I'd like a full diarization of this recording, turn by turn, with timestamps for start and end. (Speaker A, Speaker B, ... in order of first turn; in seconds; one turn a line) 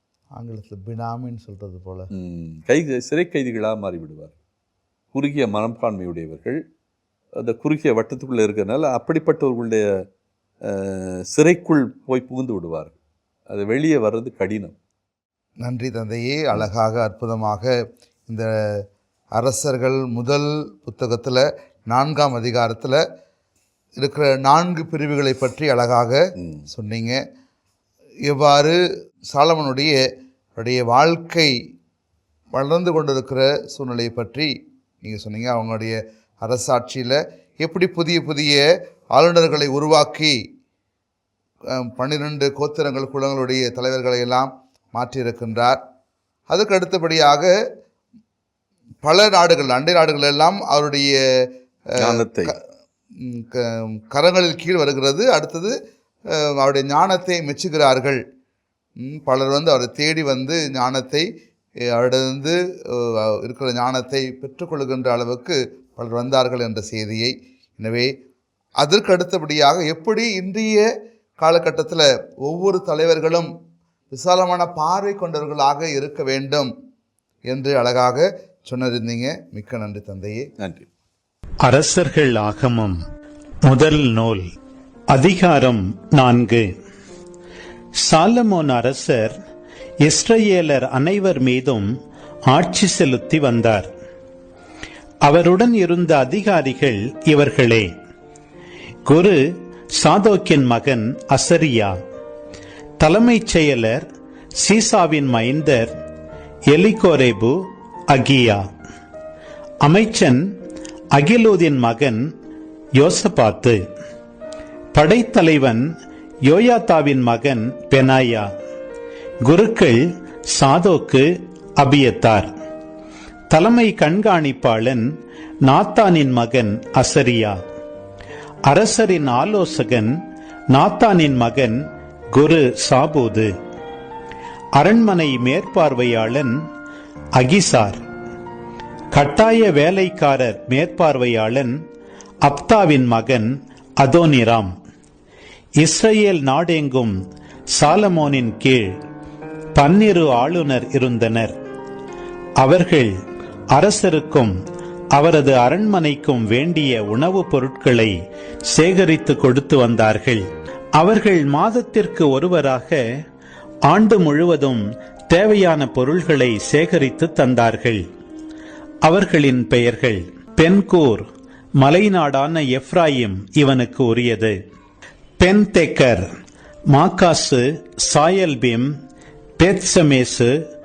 Speaker A: 0.3-2.1
Speaker B: 2.1-4.3
Speaker B: 5.1-6.6
Speaker B: 7.4-9.8
Speaker B: 10.6-12.9
Speaker B: 13.5-14.8
Speaker A: 15.6-17.7
Speaker A: 18.3-18.8
Speaker A: 19.4-23.0
Speaker A: 24.0-27.2
Speaker B: 26.4-26.6
Speaker A: 28.3-28.8
Speaker A: 29.3-30.0
Speaker A: 30.6-31.5
Speaker A: 32.5-38.6
Speaker A: 39.1-40.4
Speaker A: 41.7-45.8
Speaker A: 46.5-47.5
Speaker A: 49.0-52.6
Speaker B: 52.0-52.5
Speaker A: 53.2-55.7
Speaker A: 56.3-58.2
Speaker A: 59.0-61.2
Speaker A: 61.8-68.1
Speaker A: 68.8-70.9
Speaker A: 71.4-73.5
Speaker A: 74.1-76.7
Speaker A: 77.5-80.5
Speaker B: 80.6-80.9
Speaker C: 81.6-83.0
Speaker C: 83.7-84.5
Speaker C: 85.1-86.7
Speaker C: 88.0-89.3
Speaker C: 90.0-91.9
Speaker C: 92.5-93.9
Speaker C: 95.2-97.9
Speaker C: 99.0-99.4
Speaker C: 100.0-102.0
Speaker C: 103.0-104.0
Speaker C: 104.6-105.9
Speaker C: 106.7-108.7
Speaker C: 109.8-110.4
Speaker C: 111.1-112.2
Speaker C: 113.0-113.8
Speaker C: 114.9-115.8
Speaker C: 116.5-118.5
Speaker C: 119.4-122.5
Speaker C: 123.5-125.1
Speaker C: 125.7-127.6
Speaker C: 128.7-130.2
Speaker C: 130.7-133.5
Speaker C: 134.8-136.6
Speaker C: 137.3-138.0
Speaker C: 139.1-141.8
Speaker C: 142.4-144.7
Speaker C: 145.8-147.2
Speaker C: 147.7-148.9
Speaker C: 149.8-151.5
Speaker C: 152.6-153.1
Speaker C: 153.7-154.6
Speaker C: 155.1-158.1
Speaker C: 158.7-163.0
Speaker C: 163.9-168.0
Speaker C: 169.0-171.2
Speaker C: 171.8-174.6
Speaker C: 175.4-176.3
Speaker C: 176.9-178.9
Speaker C: 179.6-180.5